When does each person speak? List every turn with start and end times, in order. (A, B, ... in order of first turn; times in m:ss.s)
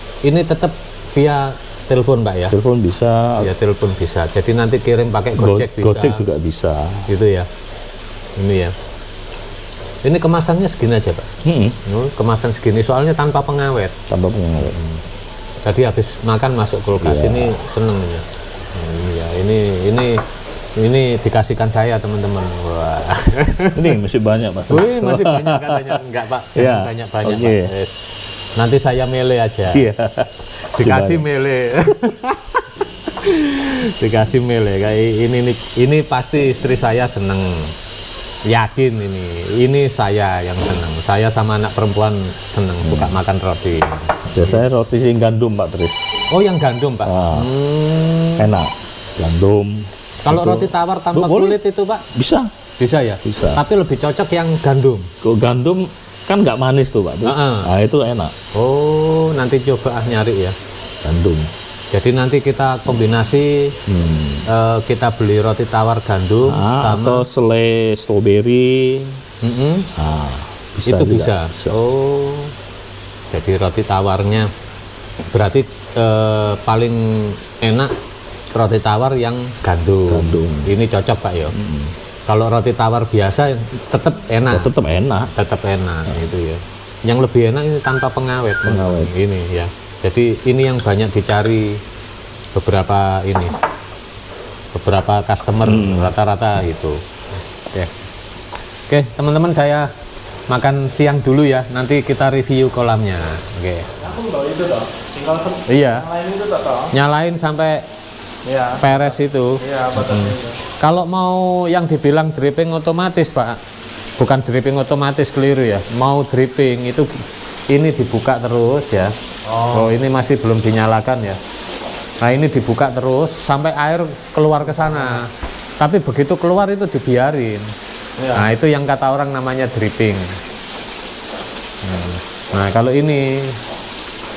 0:00.2-0:02.6 A
0:02.5-0:03.5 B
0:03.4-0:06.2 A
0:05.4-0:07.0 B
0:07.1-0:07.5 A
0:08.4-0:08.7 A
0:10.0-0:11.3 A
0:11.4-0:11.8 B
0:11.8-0:13.9 A
0:14.1-0:14.8 B
0:14.6-0:15.0 A
0:15.6-0:20.2 A
0:17.0-0:17.5 B
0:20.8-0:24.0 A
0:23.7-0:26.0 B
0:24.7-0:28.0 A
0:26.5-0:27.7 B
0:28.6-0:29.8 A
0:29.7-0:31.2 B
0:30.8-0:37.7 A
0:38.5-0:44.6 A
0:42.8-0:43.1 B
0:44.3-0:46.0 B
0:46.3-0:48.5 A
0:47.0-0:47.5 B
0:48.4-0:51.6 B
0:50.2-0:52.0 A
0:52.1-0:52.5 B
0:52.8-0:55.1 A
0:53.2-0:53.6 B
0:55.2-0:58.3 B
0:57.2-0:57.7 A
0:58.5-1:00.5 A
1:01.0-1:01.5 B
1:01.9-1:03.8 A
1:03.9-1:04.4 B
1:04.5-1:07.2 A
1:06.5-1:09.2 B
1:09.4-1:09.9 A
1:09.9-1:11.8 B
1:10.8-1:12.5 A
1:13.3-1:14.5 A
1:15.3-1:17.9 A
1:18.6-1:21.5 A
1:20.1-1:20.7 B
1:21.5-1:21.9 B
1:22.3-1:24.7 A
1:24.5-1:25.3 B
1:25.3-1:31.8 A
1:28.6-1:29.1 B
1:32.5-1:33.5 A
1:34.7-1:37.0 A
1:35.6-1:36.1 B
1:38.9-1:39.9 A
1:40.5-1:43.9 A
1:44.0-1:46.9 C
1:45.6-1:46.1 A
1:46.9-1:47.8 A
1:48.4-1:50.6 C
1:48.8-1:53.6 A
1:54.2-1:57.1 A
1:57.7-1:59.1 A
1:59.4-2:00.0 C
1:59.7-2:01.4 A
2:02.2-2:07.7 A
2:04.7-2:05.2 C
2:08.2-2:08.5 C
2:08.3-2:10.3 A
2:11.8-2:13.6 A